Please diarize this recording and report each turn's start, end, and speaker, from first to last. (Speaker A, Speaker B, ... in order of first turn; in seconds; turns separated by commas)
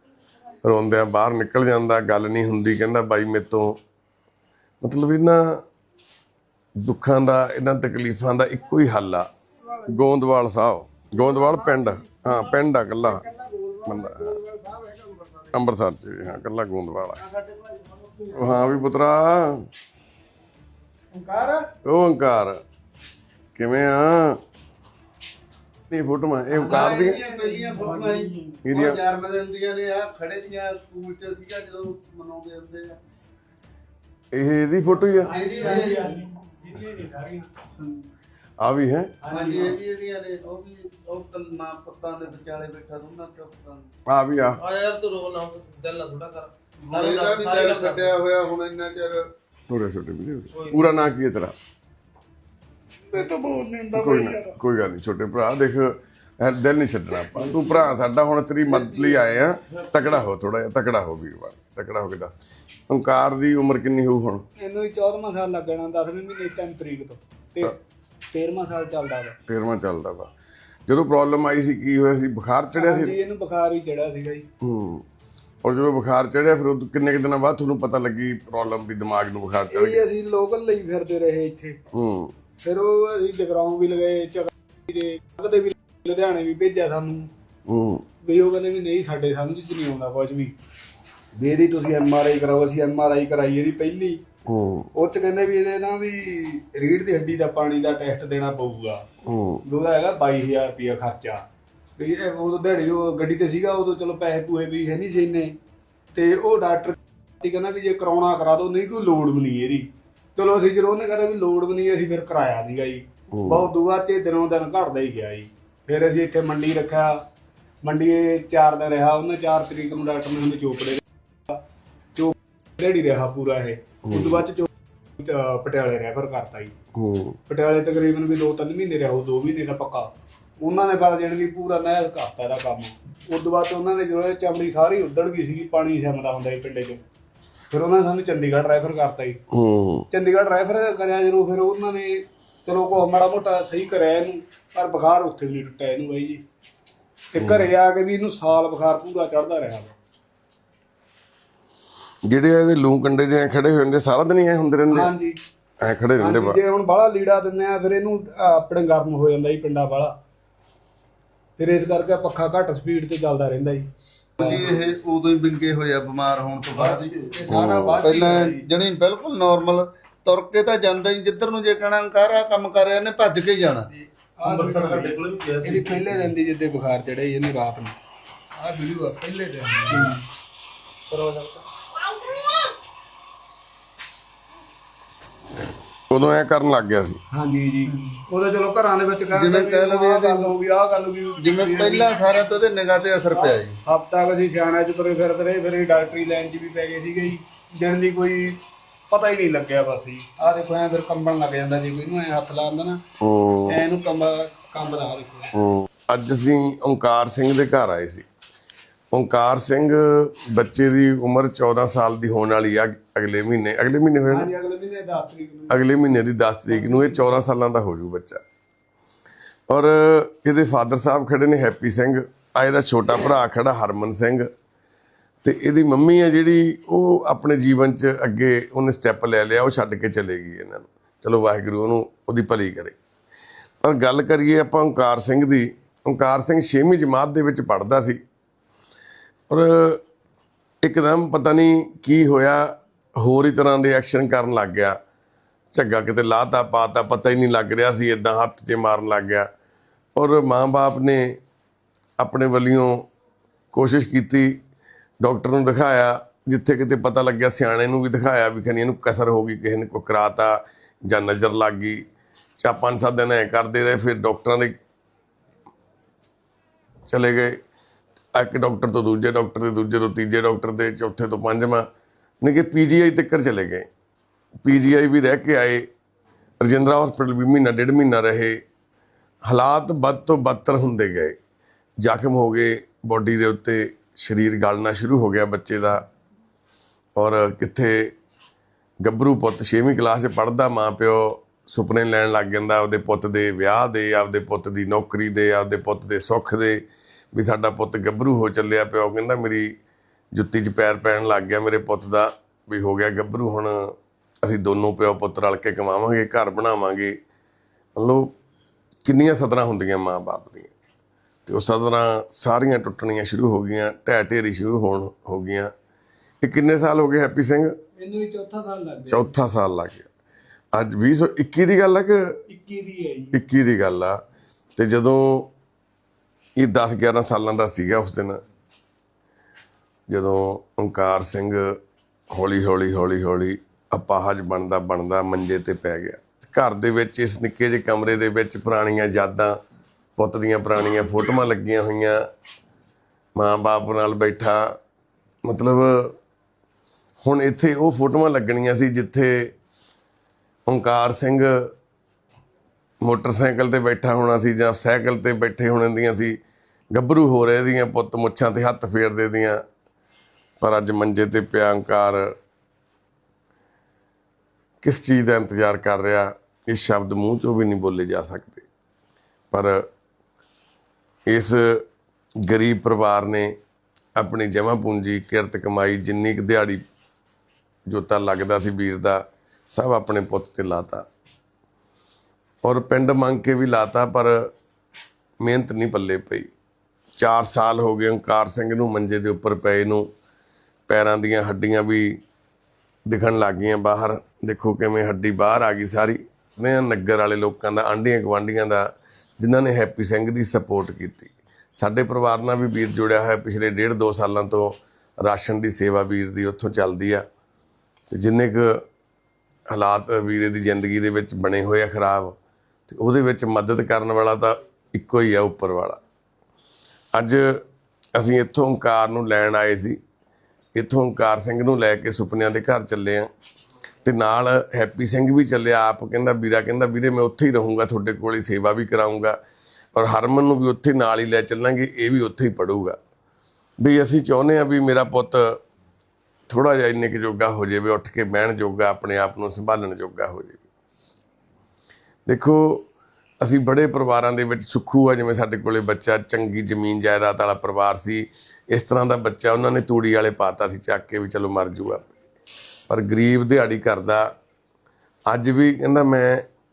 Speaker A: 0.6-3.8, Speaker A: 4.8-5.6, Speaker A: 6.8-9.3, Speaker A: 9.8-13.2, Speaker B: 11.2-12.4, Speaker B: 13.0-15.5, Speaker A: 13.9-14.4, Speaker A: 15.5-17.2, Speaker B: 17.2-18.6, Speaker A: 18.3-19.7, Speaker B: 21.1-21.7, Speaker A: 21.8-22.6, Speaker A: 23.6-24.4, Speaker A: 25.9-27.2, Speaker B: 26.5-28.6, Speaker C: 26.7-33.0, Speaker A: 28.6-29.0, Speaker A: 34.3-35.6, Speaker B: 35.3-38.0, Speaker C: 35.3-36.3, Speaker A: 38.6-39.1, Speaker B: 39.2-39.8, Speaker C: 39.3-43.9, Speaker A: 44.1-44.6, Speaker D: 44.6-48.2, Speaker C: 46.9-49.2, Speaker A: 49.7-51.5, Speaker D: 50.5-51.0, Speaker B: 53.1-54.5, Speaker A: 53.9-62.4, Speaker C: 58.7-59.1, Speaker A: 62.9-64.4, Speaker B: 64.6-67.8, Speaker B: 68.3-69.3, Speaker A: 69.5-70.3, Speaker A: 70.9-73.1, Speaker B: 72.7-74.5, Speaker A: 74.6-75.0, Speaker A: 75.6-80.0, Speaker B: 79.7-81.8, Speaker A: 81.9-82.3, Speaker B: 82.6-87.3, Speaker A: 87.7-88.0, Speaker B: 88.2-90.5, Speaker B: 91.4-94.2, Speaker A: 94.5-94.9, Speaker B: 94.9-99.0, Speaker A: 99.2-99.6, Speaker B: 99.6-101.4, Speaker B: 102.0-105.5, Speaker B: 106.1-117.2, Speaker A: 113.3-113.7, Speaker B: 117.8-121.6, Speaker B: 122.1-126.7, Speaker A: 124.1-124.4, Speaker A: 127.0-127.4, Speaker B: 127.5-137.0, Speaker B: 137.7-139.4, Speaker A: 139.5-140.1, Speaker B: 140.1-146.4, Speaker B: 147.3-150.0, Speaker A: 147.4-147.7, Speaker A: 152.2-155.1, Speaker B: 154.9-155.4, Speaker A: 155.8-156.6, Speaker B: 156.2-160.1, Speaker B: 161.6-163.8, Speaker C: 164.4-167.2, Speaker B: 164.4-164.8, Speaker B: 167.3-168.7, Speaker A: 167.5-168.0, Speaker C: 168.0-173.9, Speaker D: 174.0-176.3, Speaker B: 174.4-177.9, Speaker B: 178.5-180.2, Speaker D: 181.1-181.6, Speaker A: 186.1-187.2, Speaker B: 187.3-192.1, Speaker C: 189.3-190.5, Speaker C: 191.4-193.8, Speaker B: 193.8-203.0, Speaker A: 203.2-203.8, Speaker B: 203.7-205.5, Speaker A: 205.5-208.3, Speaker A: 209.1-214.5, Speaker B: 214.3-215.9, Speaker A: 215.7-218.4, Speaker B: 216.7-217.3, Speaker A: 219.7-224.5, Speaker A: 225.4-233.0, Speaker A: 233.8-238.2, Speaker A: 239.5-240.0, Speaker A: 240.8-245.0, Speaker A: 245.7-249.5, Speaker A: 250.2-251.4, Speaker A: 252.2-253.1, Speaker A: 253.7-254.6, Speaker A: 255.2-262.1, Speaker A: 262.6-264.8, Speaker A: 267.1-267.6, Speaker A: 268.4-271.9, Speaker A: 272.4-273.9, Speaker A: 274.6-275.9, Speaker A: 276.6-278.6, Speaker A: 279.5-281.4, Speaker A: 282.0-286.0, Speaker A: 287.2-288.1, Speaker A: 289.0-299.8, Speaker A: 300.3-307.1, Speaker A: 307.9-308.3, Speaker A: 309.1-310.7, Speaker A: 311.4-315.7, Speaker A: 316.4-317.7, Speaker B: 318.0-319.3, Speaker A: 319.1-320.1, Speaker A: 320.7-322.2, Speaker B: 322.5-323.4, Speaker A: 323.3-324.2, Speaker A: 324.8-325.5, Speaker A: 326.6-328.4, Speaker A: 330.1-331.8, Speaker A: 332.3-339.6, Speaker A: 340.2-342.2, Speaker A: 343.4-344.7, Speaker A: 345.4-346.1, Speaker A: 347.2-349.5, Speaker A: 350.7-351.5, Speaker A: 353.0-356.4, Speaker A: 356.9-359.6, Speaker A: 360.6-362.3, Speaker A: 364.8-368.6, Speaker A: 369.5-369.9, Speaker A: 371.3-371.9, Speaker A: 372.4-373.6, Speaker A: 374.2-376.8, Speaker A: 377.9-381.1, Speaker A: 382.6-384.5, Speaker A: 385.4-386.5, Speaker A: 387.2-390.1, Speaker A: 390.9-392.2, Speaker A: 393.1-407.2, Speaker A: 408.1-408.8, Speaker A: 409.7-412.4, Speaker A: 412.9-416.0, Speaker A: 417.1-417.6, Speaker A: 418.1-420.0, Speaker A: 420.8-423.3, Speaker A: 424.0-429.4, Speaker A: 429.9-433.0, Speaker A: 433.8-435.6, Speaker A: 436.5-440.6, Speaker A: 442.2-442.8, Speaker A: 443.4-452.1, Speaker A: 452.9-454.3, Speaker A: 455.3-456.4